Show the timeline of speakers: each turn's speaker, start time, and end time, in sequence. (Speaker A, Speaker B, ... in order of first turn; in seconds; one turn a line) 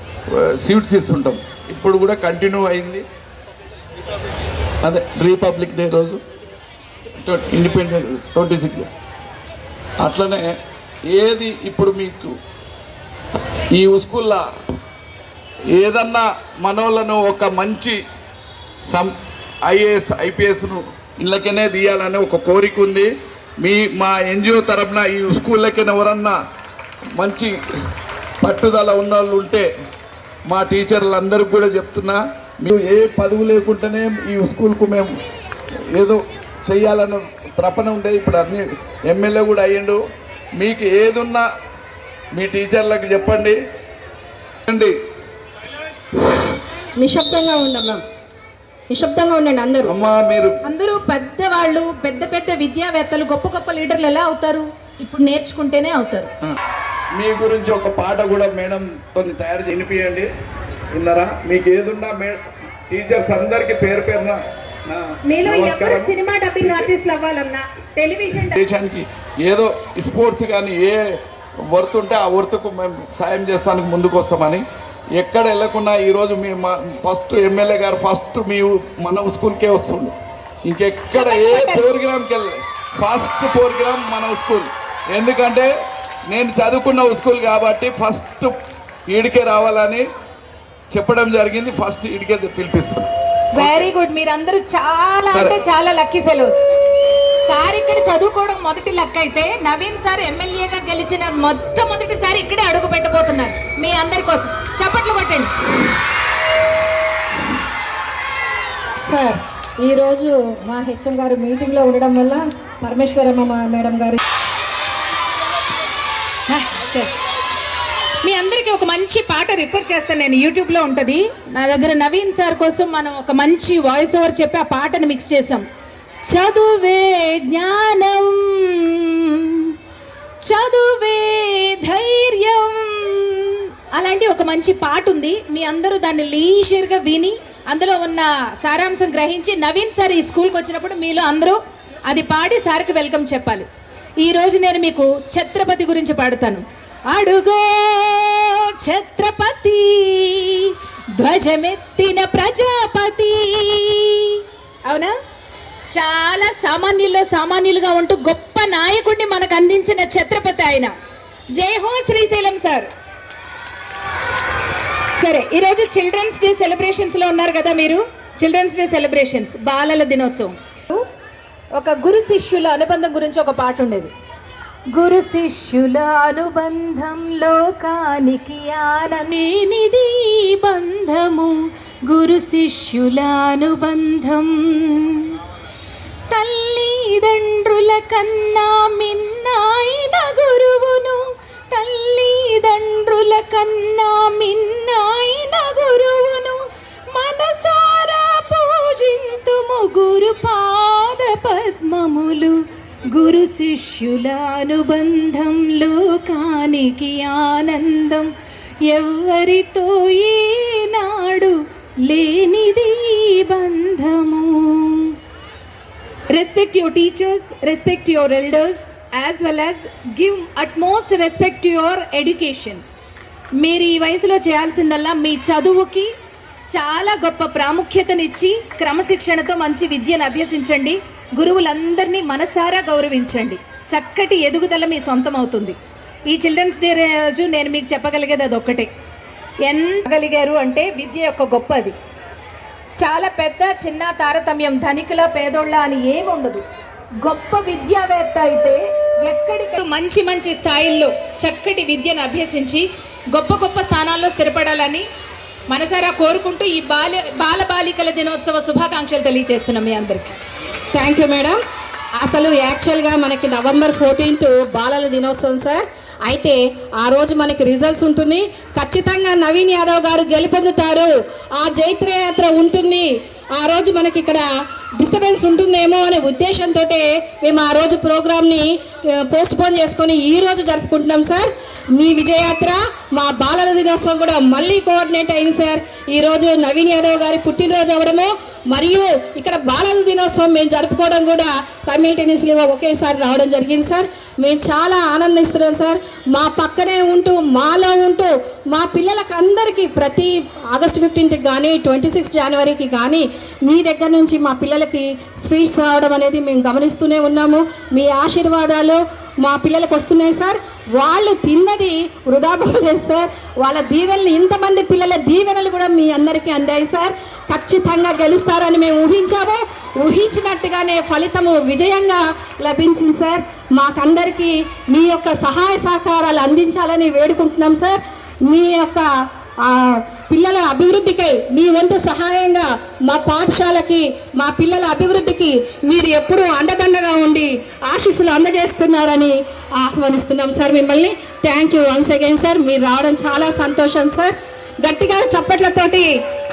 Speaker A: 0.3-3.0
Speaker A: 4.8-6.2
Speaker A: 7.2-8.9
Speaker A: 10.0-10.6
Speaker A: 11.1-12.3
Speaker A: 13.7-14.4
Speaker A: 15.7-18.0
Speaker A: 18.9-19.1
Speaker A: 19.6-23.1
Speaker A: 23.6-26.4
Speaker A: 27.1-27.5
Speaker A: 28.4-29.7
Speaker A: 30.5-35.2
Speaker A: 35.9-40.0
Speaker A: 40.6-41.4
Speaker A: 42.3-43.6
Speaker A: 44.7-44.9
Speaker B: 47.0-48.0
Speaker B: 48.9-49.9
Speaker A: 49.8-50.6
Speaker C: 50.6-56.3
Speaker A: 57.1-60.3
Speaker A: 60.9-66.9
Speaker C: 65.2-68.6
Speaker A: 68.5-71.0
Speaker A: 71.7-74.6
Speaker A: 75.2-80.1
Speaker A: 80.7-85.7
Speaker C: 81.1-81.8
Speaker A: 86.3-88.5
Speaker A: 89.1-90.0
Speaker A: 90.9-93.9
Speaker C: 93.5-96.6
Speaker A: 95.3-95.6
Speaker C: 97.4-105.5
Speaker B: 109.0-114.2
Speaker C: 116.5-117.1
Speaker C: 118.2-125.6
Speaker C: 126.3-129.7
Speaker C: 130.4-143.7
Speaker C: 144.2-155.1
Speaker C: 155.9-160.9
Speaker C: 161.5-162.9
Speaker C: 165.2-171.1
Speaker C: 171.8-174.1
Speaker C: 174.9-181.5
Speaker C: 182.1-185.3
Speaker C: 186.3-202.6
Speaker C: 203.1-208.3
Speaker C: 208.8-215.2
Speaker C: 216.3-222.8
Speaker C: 223.6-226.1
Speaker C: 226.7-235.8
Speaker C: 236.3-238.9
Speaker C: 239.6-241.9
Speaker C: 243.0-246.6
Speaker C: 247.2-255.1
Speaker C: 255.7-260.3
Speaker B: 260.9-261.6
Speaker B: 262.2-274.4
Speaker B: 275.0-329.1
Speaker B: 329.6-346.1